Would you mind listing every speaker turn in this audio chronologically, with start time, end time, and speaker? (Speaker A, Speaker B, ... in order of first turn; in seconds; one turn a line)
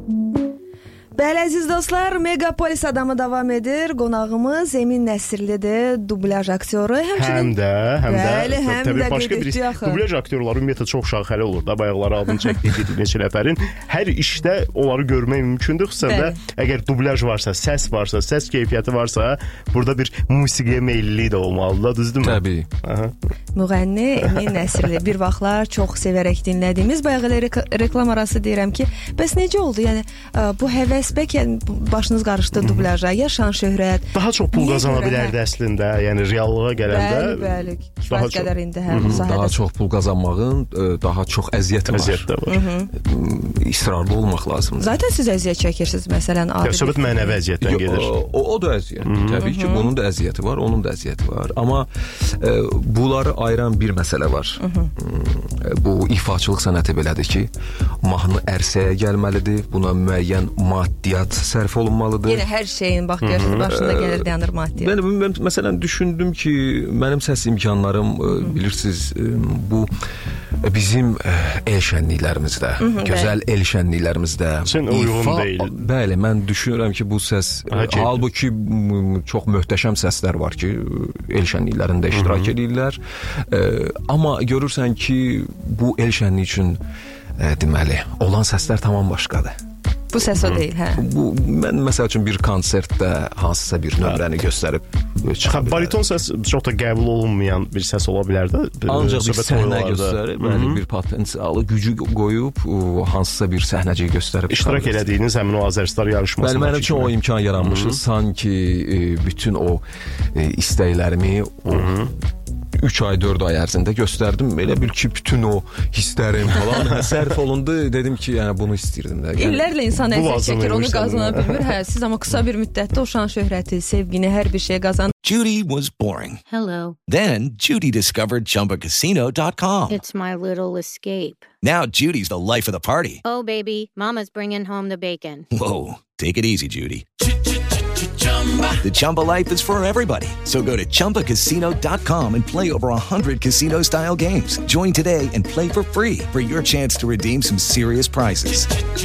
Speaker A: 1.1-7.5
Speaker B: 7.2-23.1
Speaker A: 8.1-10.0
Speaker A: 16.0-16.4
Speaker C: 22.2-22.7
Speaker A: 23.5-35.3
Speaker B: 32.6-32.9
Speaker B: 34.1-39.1
Speaker A: 36.9-39.6
Speaker C: 38.9-42.3
Speaker B: 41.9-42.5
Speaker A: 42.5-42.9
Speaker C: 42.9-45.0
Speaker A: 44.8-47.4
Speaker B: 46.6-48.1
Speaker C: 47.6-57.5
Speaker B: 49.0-49.4
Speaker A: 49.4-49.9
Speaker A: 54.6-54.9
Speaker C: 58.0-62.4
Speaker A: 62.3-64.9
Speaker B: 63.2-63.6
Speaker C: 63.5-69.9
Speaker C: 70.6-86.8
Speaker A: 72.8-73.3
Speaker B: 74.7-75.7
Speaker B: 77.7-78.2
Speaker B: 82.1-82.5
Speaker C: 87.4-89.5
Speaker A: 90.1-91.0
Speaker C: 91.0-96.0
Speaker B: 95.4-100.8
Speaker C: 98.9-105.1
Speaker B: 104.5-108.0
Speaker C: 106.4-111.9
Speaker B: 111.7-112.1
Speaker C: 112.7-119.7
Speaker A: 119.4-125.1
Speaker B: 120.1-121.7
Speaker D: 125.2-126.4
Speaker E: 126.5-127.0
Speaker D: 127.0-130.0
Speaker E: 129.9-131.5
Speaker D: 131.6-133.2
Speaker E: 133.2-135.4
Speaker D: 135.5-137.1
Speaker D: 138.8-148.8